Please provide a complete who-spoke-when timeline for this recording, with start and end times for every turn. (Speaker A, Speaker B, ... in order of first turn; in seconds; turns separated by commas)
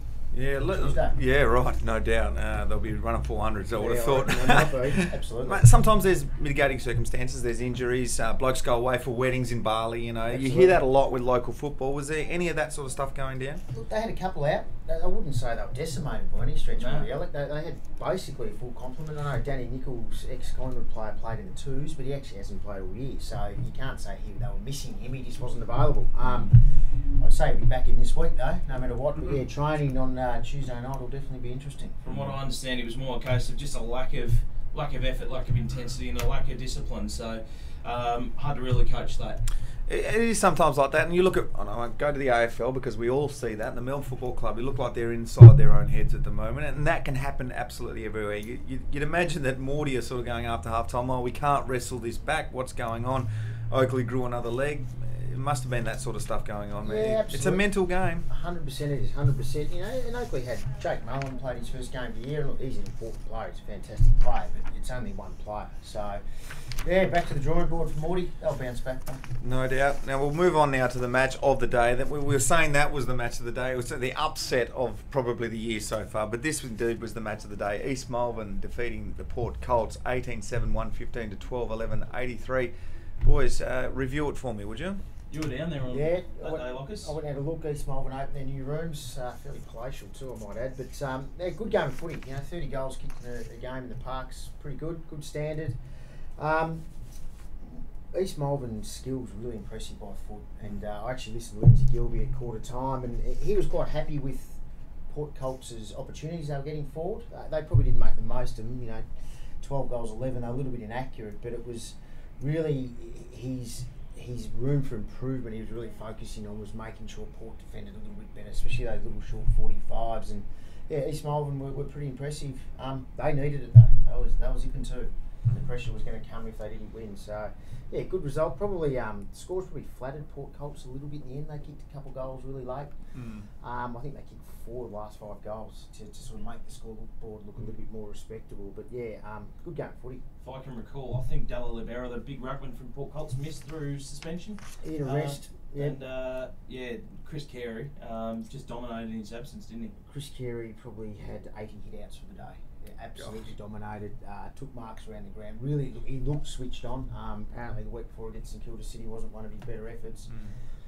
Speaker A: 0.3-13.6, Speaker B: 0.6-1.2, Speaker B: 3.7-5.7, Speaker B: 10.3-10.9, Speaker B: 13.7-32.0, Speaker C: 16.8-17.1, Speaker C: 32.0-39.4, Speaker A: 39.9-58.3, Speaker B: 56.8-57.7, Speaker B: 58.2-69.2, Speaker A: 69.4-85.0, Speaker C: 85.3-87.1, Speaker B: 85.9-95.8, Speaker B: 96.4-96.8, Speaker B: 97.6-109.0, Speaker B: 109.6-132.9, Speaker A: 133.1-133.5, Speaker B: 133.6-140.2, Speaker C: 140.4-149.9, Speaker B: 144.8-146.0, Speaker B: 150.1-160.3